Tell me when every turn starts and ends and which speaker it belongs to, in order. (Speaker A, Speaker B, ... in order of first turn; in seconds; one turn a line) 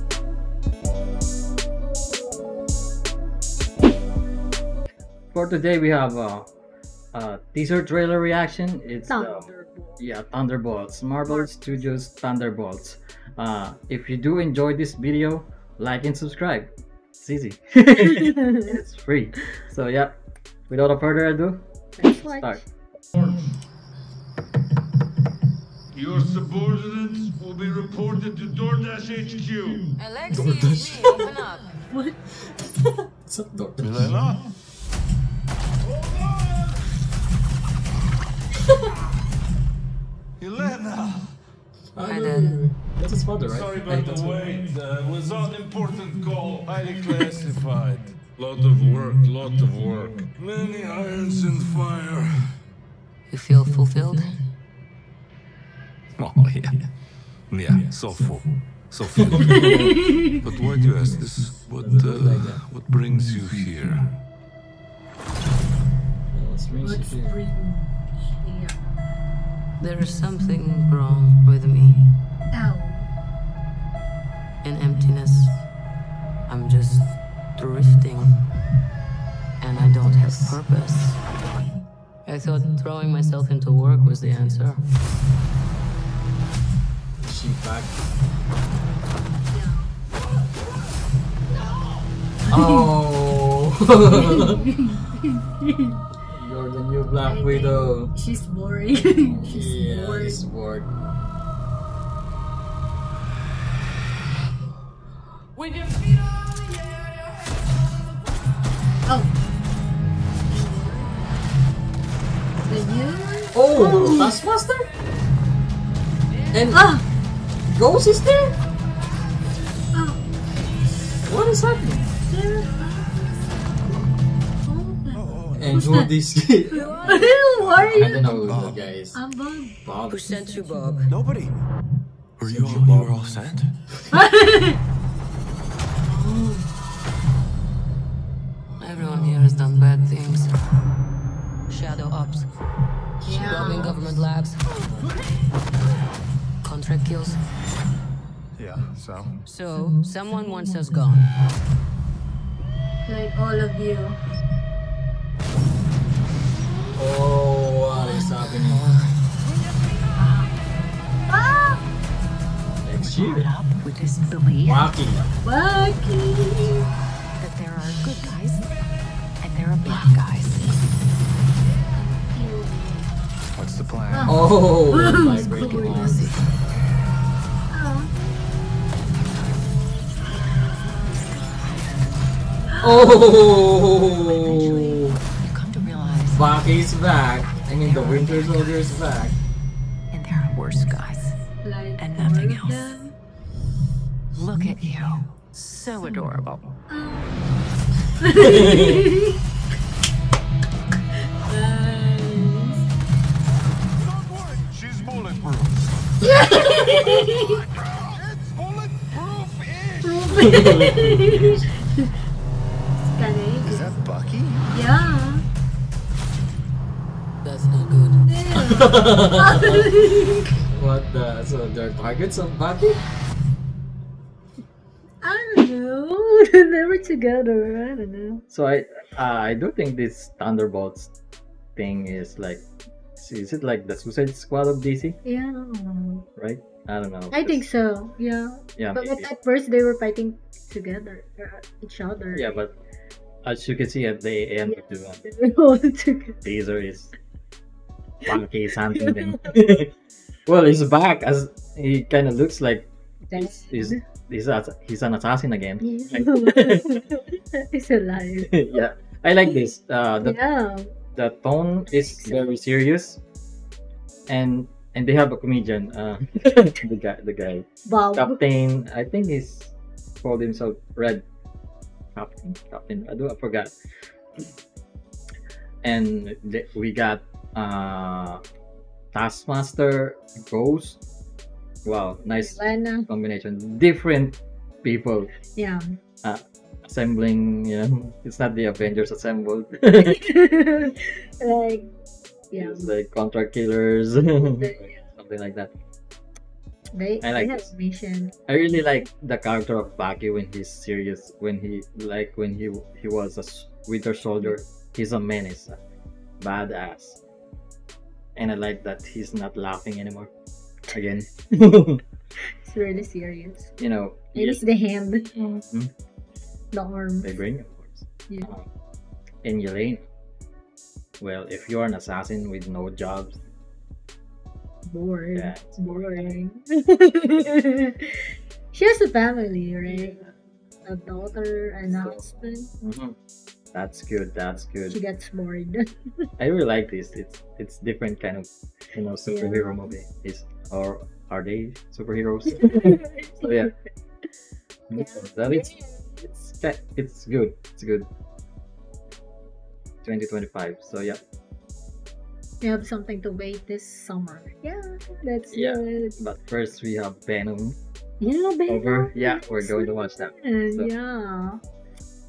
Speaker A: 5.3-6.5
Speaker A: 7.1-20.2
Speaker B: 9.1-10.0
Speaker B: 11.3-11.5
Speaker A: 20.7-22.6
Speaker B: 22.0-22.6
Speaker C: 25.9-29.9
Speaker D: 30.0-31.8
Speaker A: 30.3-31.2
Speaker B: 31.9-32.2
Speaker A: 33.2-34.2
Speaker C: 33.8-34.4
Speaker C: 35.9-36.8
Speaker C: 40.4-41.3
Speaker A: 41.9-44.3
Speaker D: 42.0-42.6
Speaker C: 43.4-52.5
Speaker D: 53.3-54.4
Speaker C: 56.2-56.8
Speaker C: 57.5-64.1
Speaker A: 59.1-59.8
Speaker B: 59.5-60.2
Speaker A: 61.8-62.6
Speaker A: 66.3-67.3
Speaker B: 66.8-68.8
Speaker D: 69.8-72.1
Speaker B: 72.5-73.1
Speaker D: 74.6-75.6
Speaker D: 76.5-78.4
Speaker D: 79.6-81.2
Speaker D: 82.2-84.9
Speaker A: 87.2-87.9
Speaker B: 89.5-89.9
Speaker B: 92.5-92.9
Speaker A: 92.5-94.6
Speaker B: 94.1-96.0
Speaker A: 96.3-98.1
Speaker B: 97.2-100.4
Speaker A: 99.4-100.9
Speaker B: 109.0-109.3
Speaker B: 110.5-111.3
Speaker B: 112.7-114.4
Speaker A: 113.5-114.9
Speaker A: 116.5-116.9
Speaker B: 116.7-117.0
Speaker A: 117.7-118.5
Speaker B: 119.9-120.2
Speaker A: 121.2-122.1
Speaker B: 122.2-123.4
Speaker B: 124.7-126.1
Speaker A: 125.5-127.1
Speaker B: 126.7-129.8
Speaker A: 127.7-129.2
Speaker A: 129.8-130.3
Speaker D: 130.1-131.2
Speaker E: 132.4-133.7
Speaker A: 132.5-133.1
Speaker B: 134.1-134.8
Speaker D: 136.2-136.6
Speaker D: 138.8-140.8
Speaker D: 141.7-142.5
Speaker B: 143.2-144.0
Speaker D: 143.3-144.6
Speaker D: 146.6-147.4
Speaker D: 149.4-151.3
Speaker B: 153.0-154.2
Speaker A: 156.9-158.9
Speaker B: 160.2-160.5
Speaker B: 161.3-161.8
Speaker A: 162.8-163.5
Speaker F: 163.2-164.8
Speaker A: 164.6-165.3
Speaker B: 165.4-166.9
Speaker F: 167.4-168.6
Speaker F: 169.4-170.6
Speaker B: 171.9-173.1
Speaker E: 173.8-174.3
Speaker B: 174.1-176.3
Speaker A: 174.2-176.3
Speaker D: 175.3-176.4
Speaker B: 177.7-178.1
Speaker B: 182.7-183.0
Speaker A: 182.8-185.2
Speaker F: 184.3-186.5
Speaker A: 186.3-189.4
Speaker F: 187.7-188.9
Speaker F: 190.1-191.3
Speaker B: 191.6-193.1
Speaker F: 192.0-192.9
Speaker F: 194.3-196.6
Speaker D: 195.6-195.8
Speaker B: 196.9-197.5
Speaker B: 198.2-199.4
Speaker A: 198.3-199.1
Speaker B: 201.4-202.8
Speaker C: 204.1-205.8
Speaker B: 206.2-207.6
Speaker C: 207.9-210.3
Speaker B: 210.0-212.1
Speaker A: 210.3-211.5
Speaker B: 213.1-214.0
Speaker E: 213.8-214.5
Speaker B: 214.7-215.4
Speaker D: 217.4-218.2
Speaker B: 218.2-220.5
Speaker A: 218.6-219.9
Speaker A: 220.7-223.0
Speaker B: 225.2-228.4
Speaker A: 228.5-231.1
Speaker A: 231.8-232.6
Speaker A: 233.2-235.2
Speaker B: 235.2-236.2
Speaker A: 236.3-237.7
Speaker B: 237.3-242.6
Speaker A: 238.8-239.3
Speaker A: 242.3-242.7
Speaker A: 243.4-245.2
Speaker B: 244.6-246.4
Speaker A: 246.4-247.1
Speaker A: 248.2-249.9
Speaker B: 249.0-249.3
Speaker A: 250.4-257.0
Speaker B: 253.3-254.0
Speaker B: 255.8-258.5
Speaker A: 258.5-260.4
Speaker B: 260.2-260.9
Speaker A: 261.1-263.2
Speaker B: 261.9-262.5
Speaker A: 264.3-271.2
Speaker B: 267.9-268.4
Speaker A: 272.1-273.7
Speaker A: 275.8-278.4
Speaker A: 279.1-281.0
Speaker A: 281.8-285.3
Speaker B: 282.3-283.1
Speaker B: 285.5-285.9
Speaker A: 286.2-290.2
Speaker B: 290.0-291.9
Speaker B: 292.5-292.9
Speaker A: 292.5-295.7
Speaker B: 294.4-295.0
Speaker B: 296.9-298.3
Speaker A: 297.2-297.7
Speaker A: 298.5-305.8
Speaker A: 306.4-307.2
Speaker A: 308.4-310.3
Speaker A: 310.9-312.0
Speaker B: 312.4-313.7
Speaker A: 313.8-314.6
Speaker B: 314.3-315.3
Speaker A: 315.3-315.9
Speaker B: 316.7-317.3
Speaker A: 317.2-318.6
Speaker A: 319.4-320.0
Speaker A: 321.2-323.4
Speaker B: 324.9-330.2
Speaker A: 325.3-326.4
Speaker A: 330.0-330.3
Speaker B: 330.8-332.7
Speaker A: 331.9-332.2
Speaker A: 332.8-333.1
Speaker A: 333.7-335.0
Speaker B: 334.9-336.3
Speaker A: 336.4-343.7
Speaker B: 339.2-339.7
Speaker B: 342.6-343.5
Speaker A: 344.9-345.7
Speaker B: 344.9-346.1
Speaker A: 346.2-348.1
Speaker A: 350.0-351.2
Speaker B: 352.6-356.2
Speaker A: 355.5-357.8
Speaker B: 358.2-361.6
Speaker A: 358.7-360.9